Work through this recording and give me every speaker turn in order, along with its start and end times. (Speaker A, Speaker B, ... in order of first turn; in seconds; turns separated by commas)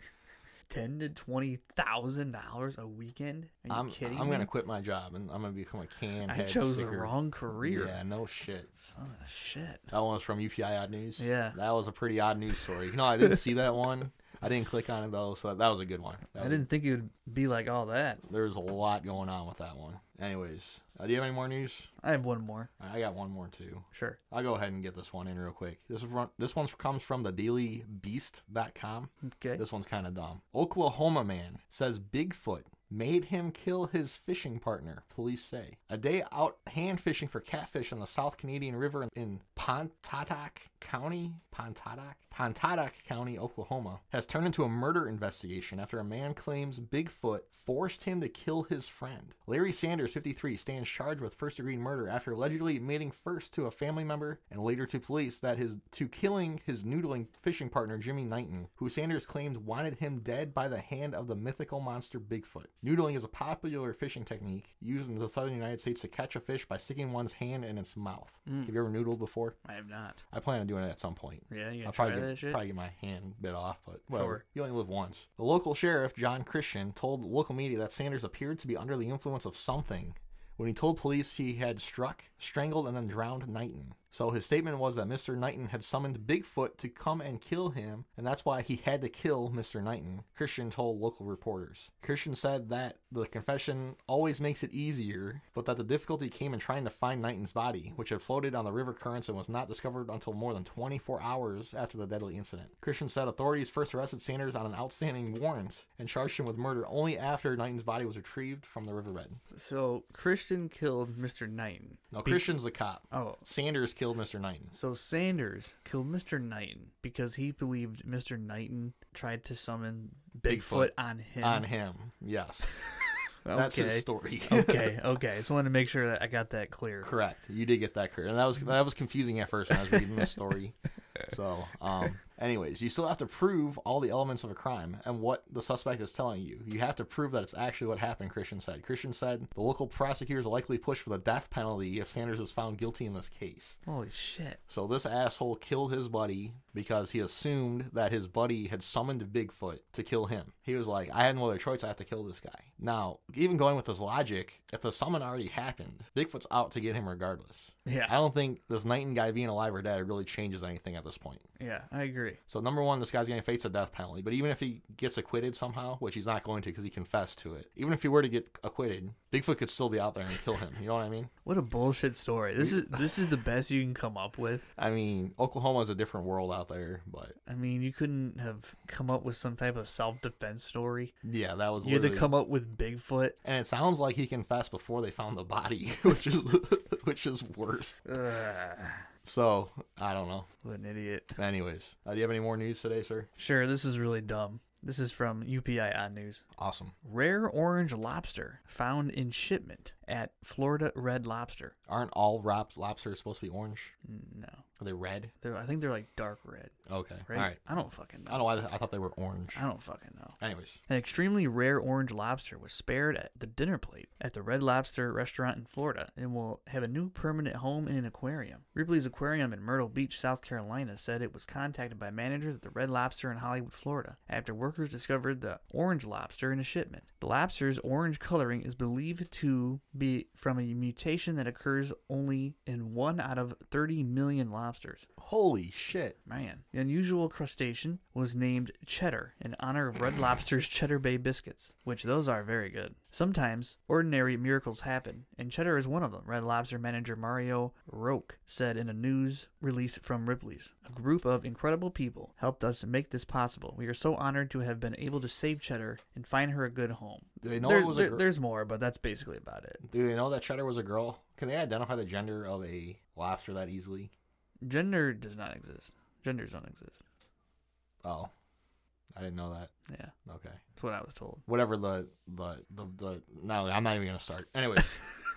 Speaker A: 0.7-4.5, Speaker B: 3.7-8.7, Speaker A: 6.3-8.0, Speaker A: 8.8-9.9, Speaker B: 9.9-16.7, Speaker A: 11.2-11.6, Speaker A: 16.4-18.2, Speaker B: 18.2-21.9, Speaker A: 22.0-22.7, Speaker B: 22.8-69.6, Speaker A: 23.9-24.2, Speaker A: 29.2-29.6, Speaker A: 68.5-68.7, Speaker A: 69.6-70.2, Speaker B: 70.3-109.4, Speaker A: 71.5-72.6, Speaker A: 74.1-74.4, Speaker A: 109.5-112.6, Speaker B: 112.1-114.7, Speaker A: 113.1-113.4, Speaker A: 114.7-121.7, Speaker B: 120.5-122.9, Speaker A: 123.5-127.1, Speaker B: 123.5-125.0, Speaker B: 127.0-143.8, Speaker A: 143.9-144.6, Speaker B: 144.7-161.4, Speaker A: 157.8-158.2, Speaker A: 161.6-162.4, Speaker B: 162.5-171.3, Speaker A: 171.4-174.7, Speaker B: 172.6-173.1, Speaker B: 174.8-177.4, Speaker A: 177.5-181.1, Speaker B: 181.2-182.3, Speaker A: 181.8-183.4, Speaker B: 183.4-188.0, Speaker A: 188.1-189.1, Speaker B: 189.2-190.5, Speaker A: 190.6-191.4, Speaker B: 191.4-193.3, Speaker A: 193.4-196.4, Speaker B: 196.6-196.9, Speaker A: 197.0-201.7, Speaker B: 201.9-203.9, Speaker A: 204.1-204.7, Speaker B: 204.8-205.3, Speaker A: 205.4-206.8, Speaker B: 206.9-207.6, Speaker A: 207.3-208.4, Speaker B: 208.3-209.6, Speaker A: 209.6-210.4, Speaker B: 210.4-210.8, Speaker A: 210.9-235.1, Speaker B: 235.2-236.2, Speaker A: 236.3-259.8, Speaker B: 257.4-258.3, Speaker B: 259.8-264.1, Speaker A: 264.6-267.0, Speaker B: 268.0-268.3, Speaker B: 269.1-269.7, Speaker A: 269.9-270.1, Speaker B: 270.3-270.6, Speaker A: 270.7-271.5, Speaker B: 271.5-275.1